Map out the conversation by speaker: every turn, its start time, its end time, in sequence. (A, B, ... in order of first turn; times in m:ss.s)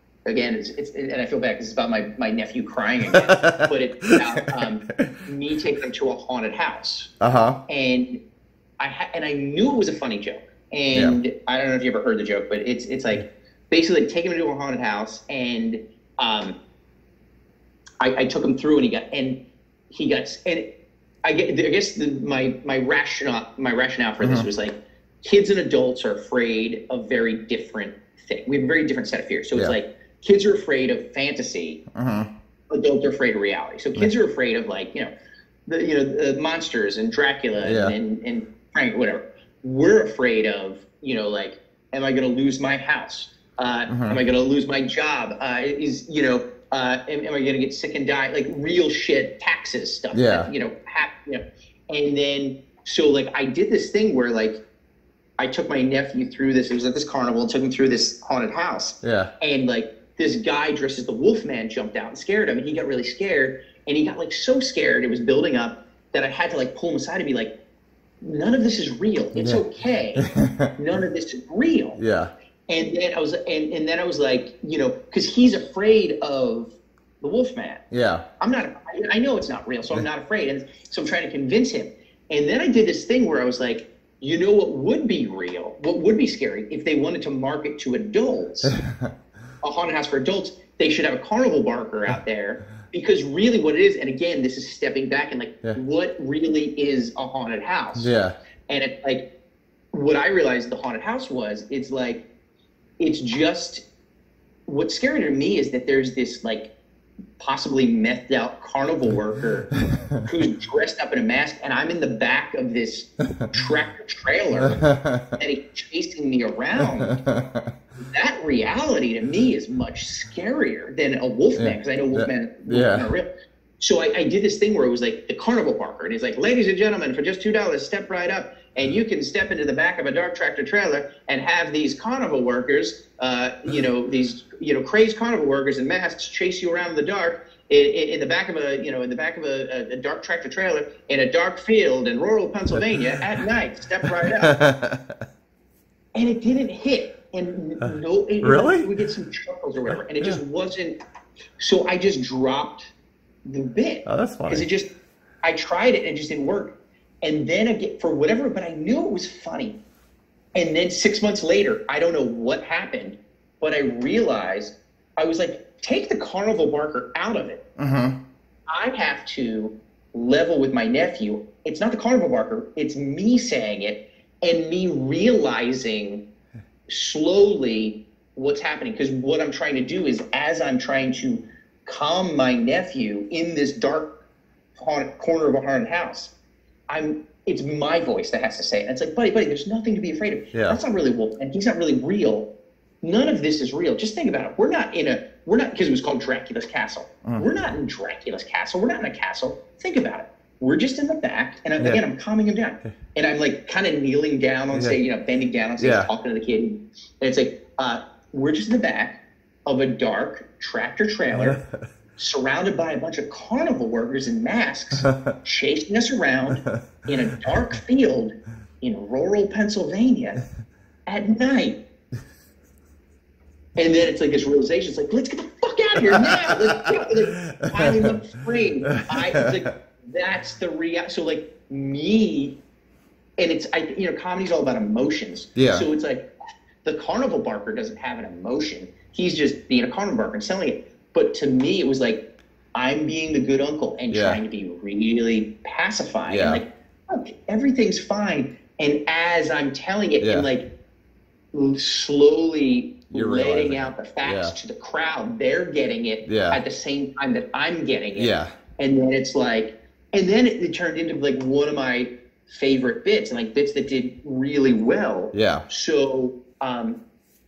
0:00.3-0:07.1 A
0:03.1-0:04.2 B
0:07.2-0:07.6 B
0:07.7-0:08.2 A
0:08.8-0:16.6 A
0:18.0-0:19.4 A
0:19.9-0:20.7 A
0:21.2-0:31.8 A
0:24.2-0:24.5 B
0:32.0-0:32.3 B
0:32.7-0:35.1 A
0:35.7-0:54.6 A
0:37.6-0:38.0 B
0:43.9-0:44.2 B
0:50.1-0:50.5 B
0:55.4-1:07.5 A
0:59.0-0:59.3 B
1:08.2-1:12.0 A
1:09.4-1:09.6 B
1:10.2-1:10.7 B
1:12.0-1:12.3 B
1:12.7-1:17.8 A
1:17.9-1:18.2 B
1:18.4-1:28.7 A
1:28.7-1:29.1 B
1:29.6-1:38.1 A
1:38.0-1:38.3 B
1:38.7-1:39.3 A
1:39.9-1:42.2 A
1:43.0-1:43.8 A
1:44.7-1:46.7 A
1:47.4-1:49.7 A
1:49.9-1:50.3 B
1:50.2-1:54.8 A
1:54.5-1:55.4 B
1:55.4-1:57.2 A
1:56.8-1:57.7 B
1:58.1-2:03.3 A
2:01.6-2:03.1 B
2:03.8-2:24.5 A
2:22.8-2:23.2 B
2:24.4-2:25.1 B
2:26.2-2:30.9 A
2:28.4-2:28.9 B
2:31.6-2:32.9 A
2:33.5-2:34.9 A
2:34.1-2:34.7 B
2:35.4-2:39.8 A
2:40.6-2:47.6 A
2:47.8-2:48.2 B
2:48.7-2:56.2 A
2:56.9-3:04.1 A
3:04.8-3:06.3 A
3:06.9-3:12.5 A
3:10.5-3:10.8 B
3:13.0-3:31.6 A
3:24.7-3:25.0 B
3:25.8-3:26.1 B
3:31.3-3:31.6 B
3:32.2-3:40.4 A
3:35.0-3:35.3 B
3:41.1-3:41.8 A
3:43.8-3:52.6 A
3:46.2-3:46.8 B
3:47.5-3:48.2 B
3:48.9-3:49.5 B
3:53.4-3:56.3 A
3:55.6-3:55.9 B
3:56.8-4:02.2 A
4:02.8-4:10.7 A
4:04.1-4:04.4 B
4:06.3-4:06.6 B
4:10.2-4:10.5 B
4:11.5-4:27.0 A
4:13.1-4:14.6 B
4:16.2-4:16.6 B
4:18.2-4:18.5 B
4:25.3-4:25.6 B